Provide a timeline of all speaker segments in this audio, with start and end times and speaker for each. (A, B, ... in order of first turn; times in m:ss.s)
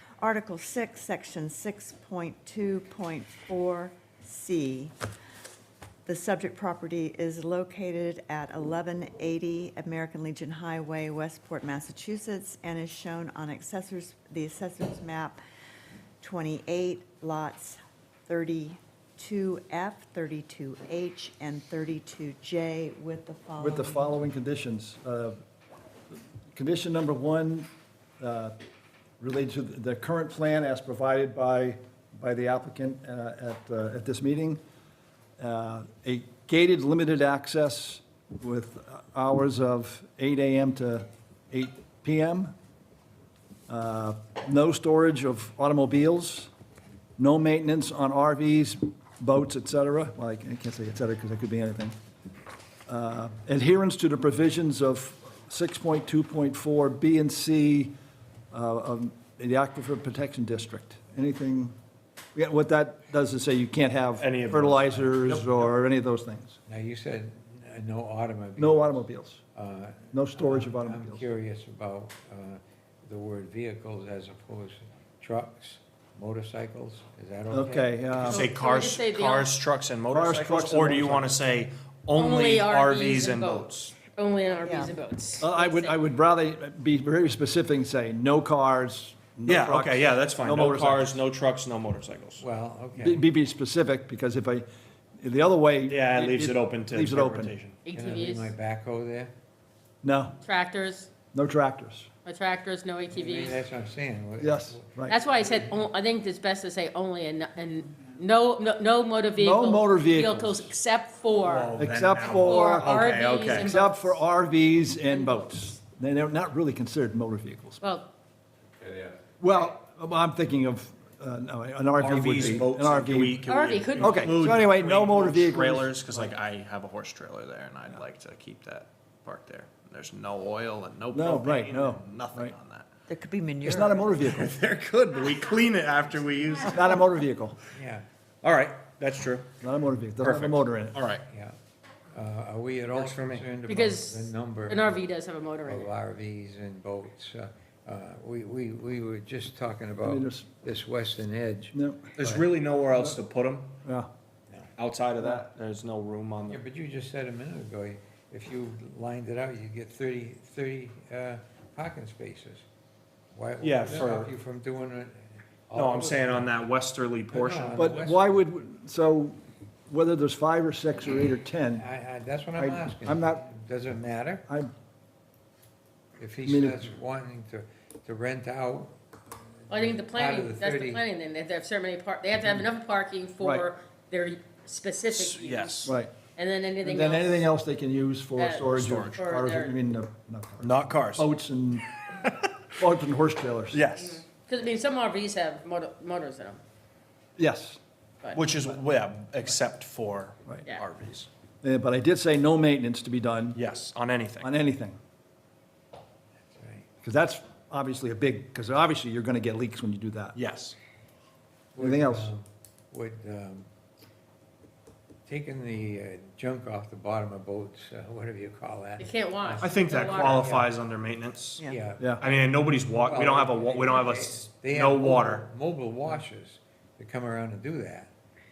0:00.2-0:04.9 A
0:06.0-0:15.4 A
0:16.2-0:24.2 A
0:23.6-0:25.4 B
0:26.1-0:27.7 B
0:28.2-0:28.5 B
0:29.2-0:34.6 B
0:35.4-0:42.5 B
0:43.7-0:46.5 B
0:47.2-0:51.9 B
0:52.9-0:57.9 B
0:58.5-1:01.7 B
1:02.3-1:06.6 B
1:04.2-1:05.5 C
1:06.7-1:09.0 D
1:08.6-1:09.4 B
1:09.5-1:18.0 D
1:10.1-1:11.2 B
1:17.5-1:18.5 B
1:18.2-1:19.6 E
1:18.2-1:24.0 C
1:20.1-1:21.3 B
1:22.1-1:26.0 E
1:24.6-1:24.9 A
1:25.4-1:31.2 B
1:29.5-1:32.4 C
1:32.4-1:33.3 D
1:33.0-1:34.6 B
1:35.2-1:37.5 B
1:35.9-1:37.8 C
1:37.8-1:38.5 E
1:37.9-1:39.3 D
1:40.0-1:40.3 B
1:40.4-1:41.1 E
1:41.3-1:42.1 B
1:42.2-1:43.6 E
1:43.1-1:44.9 D
1:44.4-1:45.2 B
1:45.1-1:51.8 E
1:49.4-1:50.7 B
1:51.4-1:53.9 C
1:51.7-1:53.0 B
1:52.4-1:54.1 E
1:53.6-1:57.8 B
1:57.8-1:58.1 E
1:59.4-2:06.3 B
2:02.0-2:12.9 C
2:03.4-2:04.2 E
2:11.1-2:12.5 B
2:13.1-2:14.4 A
2:13.6-2:14.5 B
2:14.2-2:16.9 C
2:16.6-2:17.6 B
2:17.7-2:18.0 D
2:18.4-2:19.5 C
2:19.6-2:21.0 B
2:20.2-2:21.2 C
2:21.3-2:21.5 D
2:22.1-2:25.0 D
2:22.9-2:23.5 C
2:23.6-2:25.9 E
2:25.7-2:32.5 D
2:30.0-2:30.5 B
2:31.7-2:32.1 B
2:32.2-2:33.7 C
2:33.8-2:34.1 B
2:34.8-2:36.6 C
2:36.5-2:42.6 D
2:43.3-2:46.5 D
2:43.6-2:44.3 C
2:45.7-2:47.9 C
2:47.3-2:48.4 D
2:47.7-2:51.8 B
2:51.7-2:54.4 D
2:52.5-2:53.4 B
2:56.2-2:58.9 D
2:56.4-2:56.9 B
2:59.7-3:01.0 D
2:59.7-3:07.4 E
3:03.4-3:03.7 B
3:05.1-3:05.9 C
3:05.8-3:06.1 B
3:06.8-3:11.9 B
3:08.4-3:09.8 E
3:08.8-3:09.2 C
3:10.6-3:11.3 C
3:12.7-3:13.8 B
3:13.7-3:14.2 C
3:14.0-3:16.6 E
3:17.4-3:17.8 B
3:18.2-3:18.6 E
3:18.3-3:21.3 C
3:21.6-3:23.6 B
3:23.5-3:24.5 C
3:24.4-3:25.0 B
3:26.5-3:26.8 D
3:27.0-3:30.4 B
3:30.3-3:30.7 C
3:31.7-3:33.7 D
3:31.8-3:32.3 B
3:35.2-3:40.7 D
3:39.0-3:40.5 E
3:39.6-3:41.6 C
3:41.6-3:48.1 D
3:42.2-3:45.4 C